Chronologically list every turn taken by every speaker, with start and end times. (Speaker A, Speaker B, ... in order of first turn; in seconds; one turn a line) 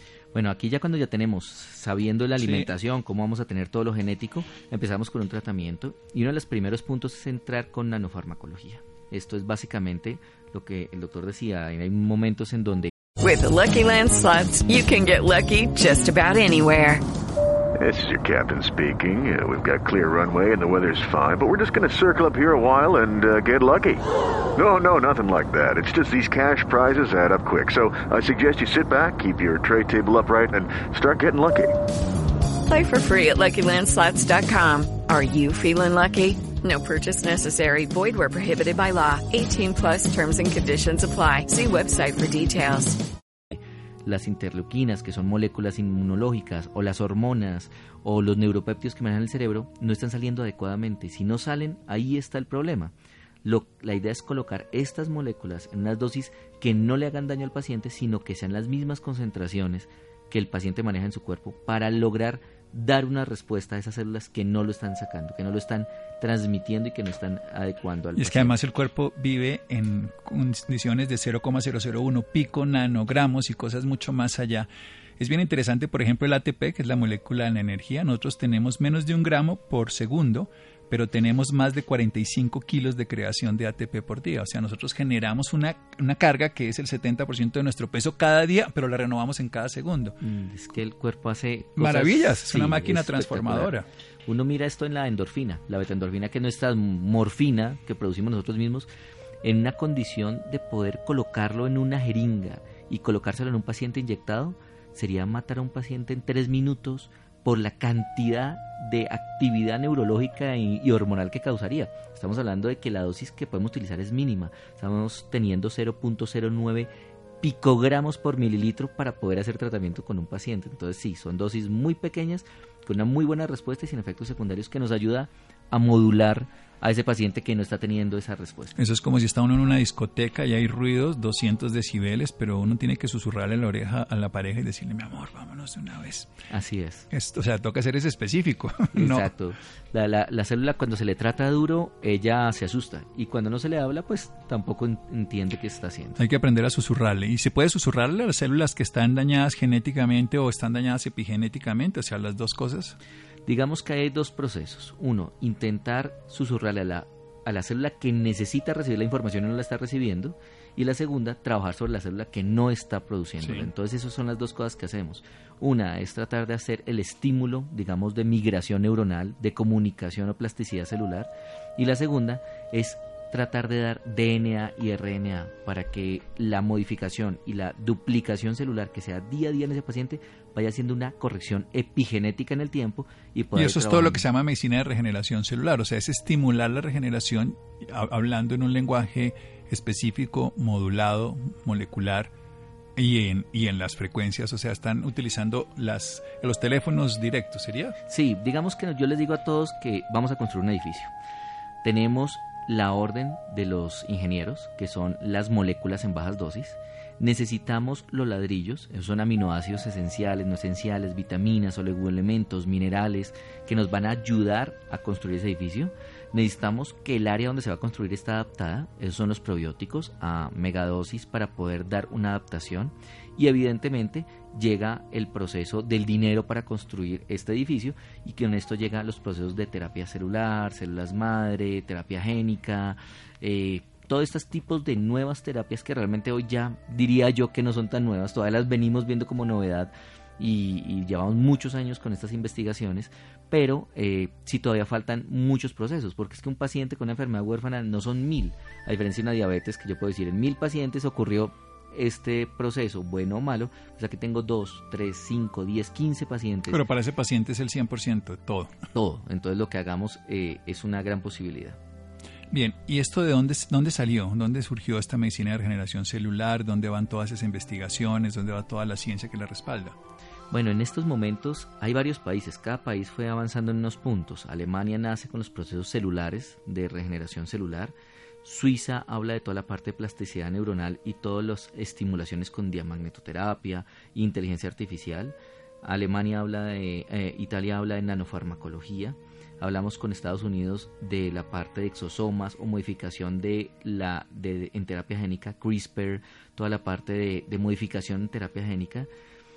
Speaker A: 0.3-12.9
Speaker B: 2.4-2.7
Speaker C: 13.2-17.0
Speaker D: 17.8-24.0
Speaker D: 24.6-31.8
Speaker C: 32.7-43.0
Speaker A: 43.5-52.9
Speaker A: 53.4-68.6
Speaker B: 68.2-74.7
Speaker B: 75.2-90.2
Speaker A: 90.2-93.7
Speaker B: 91.8-93.9
Speaker A: 94.3-98.9
Speaker A: 99.4-116.9
Speaker A: 117.4-128.8
Speaker B: 128.8-136.3
Speaker A: 136.5-137.1
Speaker B: 137.1-139.3
Speaker A: 138.9-146.2
Speaker B: 146.2-153.0
Speaker A: 153.5-184.2
Speaker B: 163.4-163.7
Speaker B: 183.6-192.3
Speaker B: 193.0-198.0
Speaker A: 198.1-201.1
Speaker A: 201.8-256.8
Speaker B: 256.7-258.7
Speaker A: 258.9-261.8
Speaker B: 262.5-270.0
Speaker A: 270.5-299.1